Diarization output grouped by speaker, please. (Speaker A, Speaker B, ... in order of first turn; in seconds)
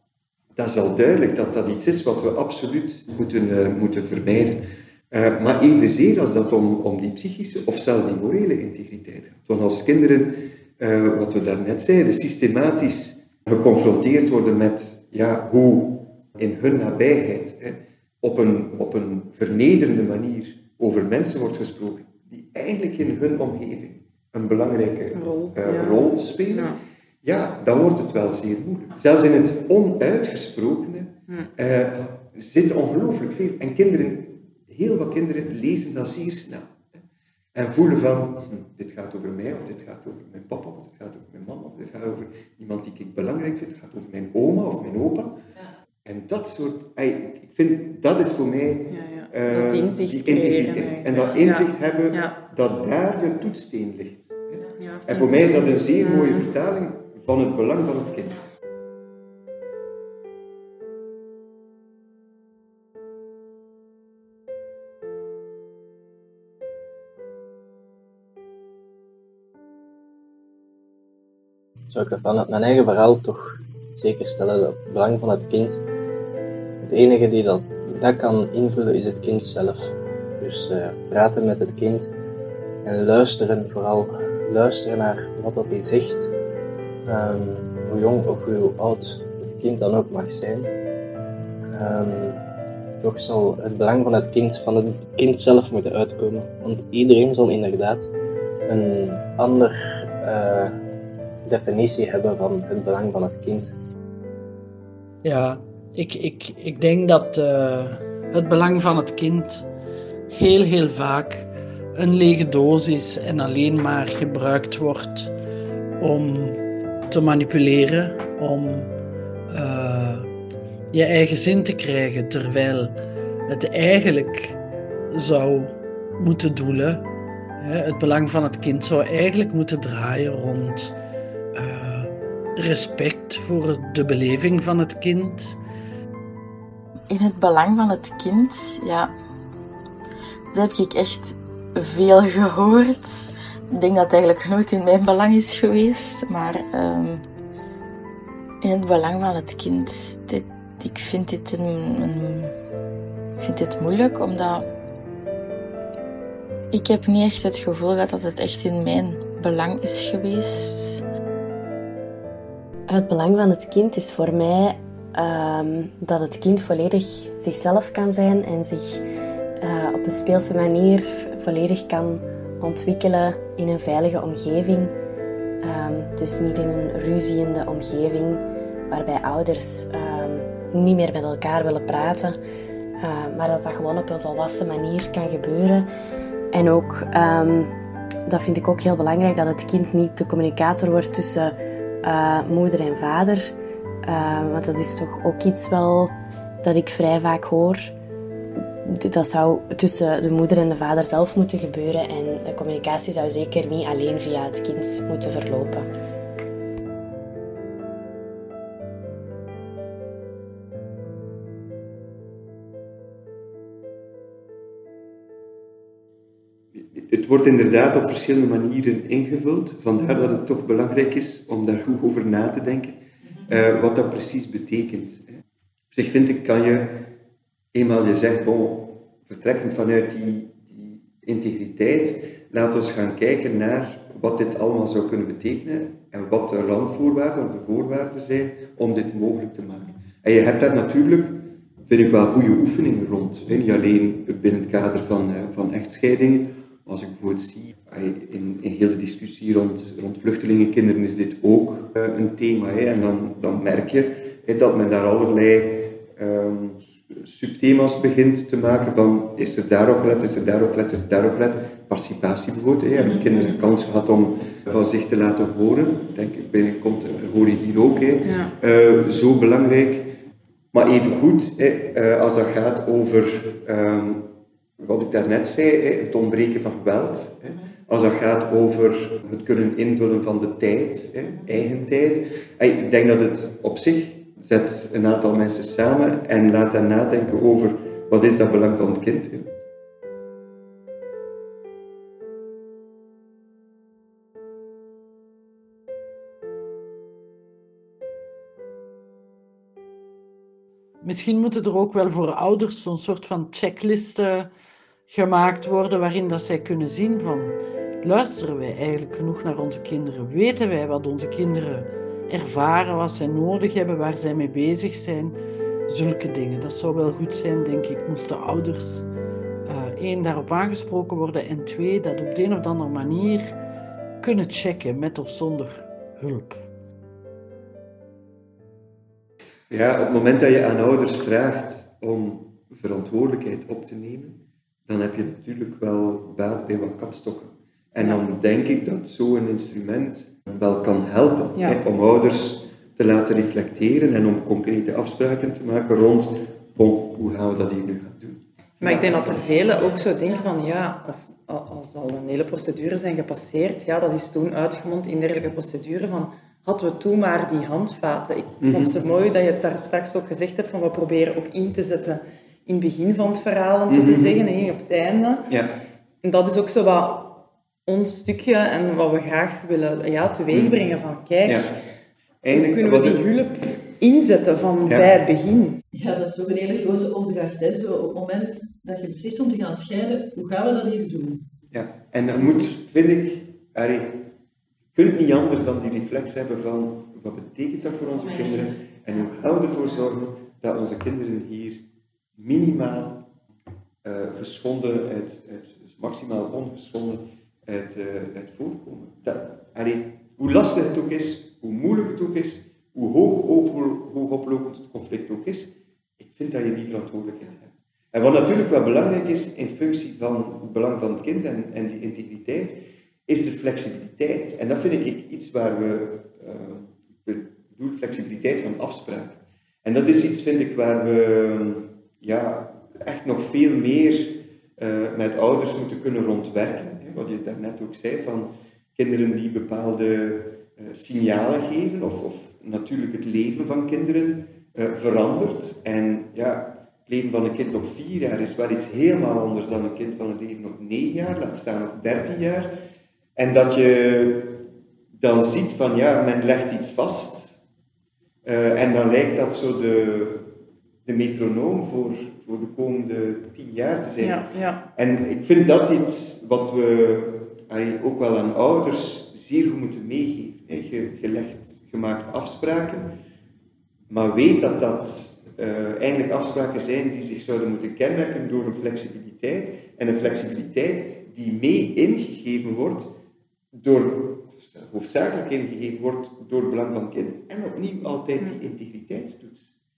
Speaker A: 0.5-45.4, 46.0-58.4, 216.7-225.4, 225.9-227.1, 227.7-270.2, 270.7-289.5, 329.7-349.9, 358.6-359.0, 363.9-364.4, 365.5-365.8, 370.5-370.8, 371.4-371.7, 372.4-373.3, 374.8-375.1, 381.7-384.3, 384.9-391.8, 392.4-393.3, 394.0-442.8, 443.4-447.6, 448.4-454.4, 454.9-463.2, 464.1-473.1, 473.7-479.7
Speaker B: 25.1-26.8, 48.9-52.4, 54.8-56.5, 268.2-268.5, 348.8-365.5, 366.2-371.8, 372.5-375.8, 454.2-454.8
Speaker C: 71.9-75.8, 76.8-82.1, 82.8-86.3, 87.0-90.7, 91.7-92.4, 93.0-98.1, 98.7-100.7, 101.5-103.7
Speaker D: 105.2-109.7, 110.3-115.3, 116.0-118.9, 119.5-120.3, 120.9-122.9, 123.5-124.6, 125.1-127.0, 127.6-130.9, 131.5-135.6, 301.0-304.5, 305.1-315.4, 315.9-319.1, 319.6-323.5, 324.2-326.6
Speaker E: 137.1-139.1, 140.5-147.2, 148.6-152.5, 153.4-154.7, 156.7-161.0
Speaker F: 162.9-169.0, 169.6-174.9, 175.6-182.4, 183.0-185.9, 186.5-187.7, 188.3-193.5, 194.0-197.9, 198.8-205.9
Speaker G: 375.9-381.4